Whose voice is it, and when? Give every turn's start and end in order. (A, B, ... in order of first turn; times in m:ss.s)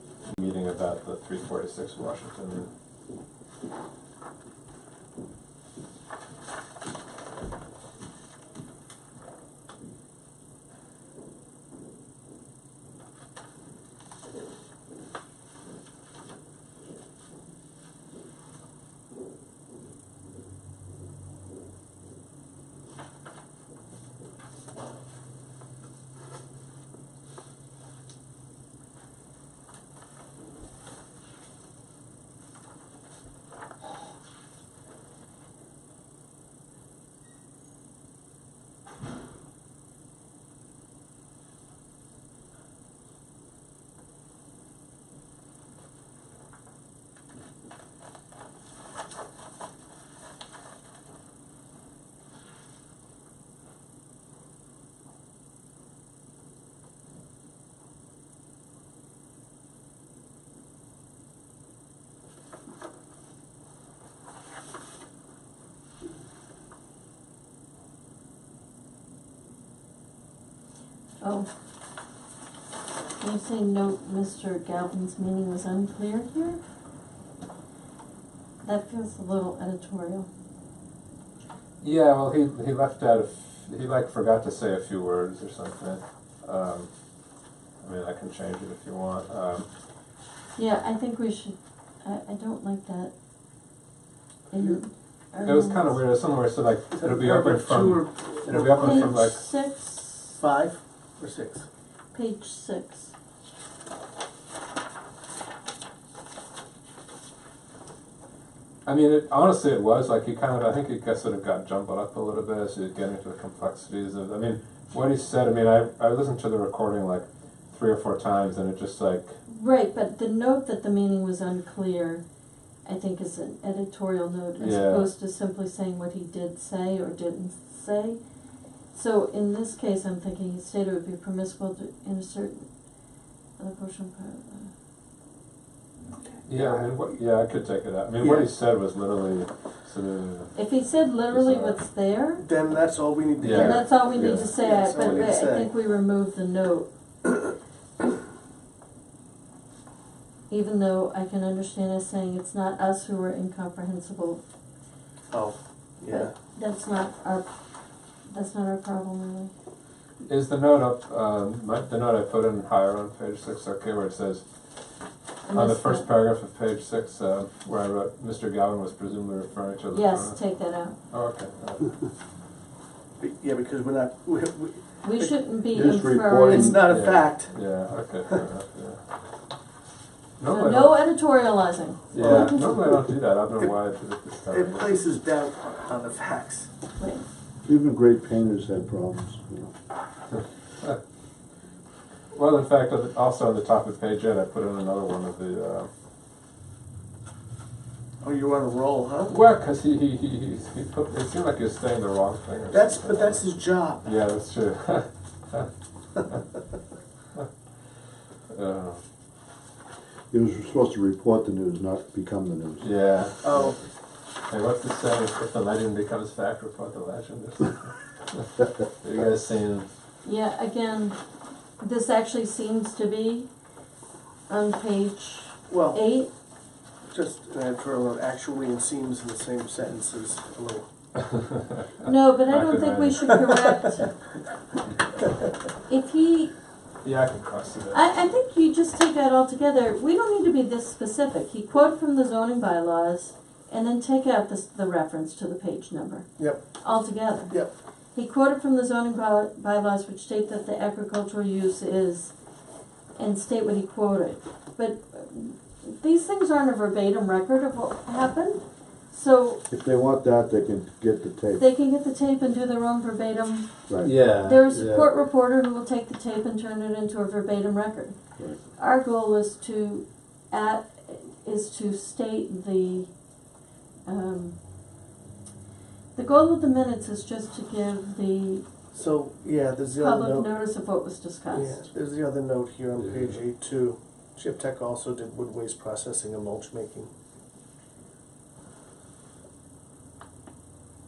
0:00.2-0:02.7 A
1:11.2-1:11.5 B
1:13.2-1:16.6 B
1:18.6-1:20.3 B
1:21.8-1:26.9 A
1:27.8-1:29.7 A
1:30.6-1:33.1 B
1:34.5-1:36.0 B
1:35.4-1:39.4 A
1:36.9-1:39.2 C
1:38.8-1:40.4 B
1:40.4-1:41.6 C
1:42.1-1:43.1 B
1:48.8-1:59.4 A
1:59.5-2:02.2 B
2:02.8-2:08.2 B
2:04.6-2:05.1 A
2:08.9-2:12.7 B
2:13.6-2:14.7 B
2:16.4-2:20.5 A
2:16.5-2:16.8 C
2:18.2-2:18.5 C
2:20.5-2:22.4 B
2:21.3-2:21.8 A
2:22.4-2:25.7 C
2:23.4-2:25.3 A
2:23.4-2:26.9 B
2:30.5-2:34.4 B
2:35.3-2:36.3 C
2:36.1-2:37.5 B
2:38.2-2:39.5 B
2:40.2-2:44.4 A
2:45.4-2:46.1 B
2:45.5-2:50.4 A
2:49.9-2:51.0 B
2:51.1-2:51.9 A
2:53.2-2:55.3 C
2:55.0-2:56.8 B
2:55.7-2:56.8 D
2:56.5-2:57.6 C
2:56.8-2:59.0 A
3:00.4-3:01.0 A
3:00.5-3:02.7 B
3:02.1-3:05.1 A
3:02.2-3:03.7 C
3:04.5-3:06.7 C
3:07.0-3:07.2 B
3:07.6-3:09.7 D
3:12.3-3:15.9 A
3:18.2-3:19.4 C
3:19.2-3:25.7 A
3:22.7-3:24.1 C
3:28.5-3:29.0 A
3:30.3-3:32.8 D
3:32.8-3:33.7 A
3:33.4-3:33.8 C
3:34.5-3:39.9 A
3:40.2-3:41.2 B
3:41.8-3:43.5 B
3:44.5-3:46.3 B
3:45.7-3:46.0 C
3:47.1-3:50.9 C
3:51.3-3:51.8 A
3:52.0-3:54.1 B
3:52.5-3:53.3 A
3:53.3-3:53.8 C
3:55.9-3:56.5 B
3:57.0-3:58.0 A
3:57.9-4:07.5 B
4:06.4-4:06.6 C
4:08.1-4:12.3 B
4:13.2-4:19.6 B
4:19.7-4:21.6 D
4:21.6-4:23.7 B
4:23.9-4:24.1 D
4:24.0-4:25.1 A
4:24.3-4:28.2 B
4:28.8-4:33.1 B
4:34.0-4:34.5 B
4:36.1-4:38.6 B
4:38.9-4:40.5 C
4:40.0-4:41.8 B
4:41.5-4:47.1 C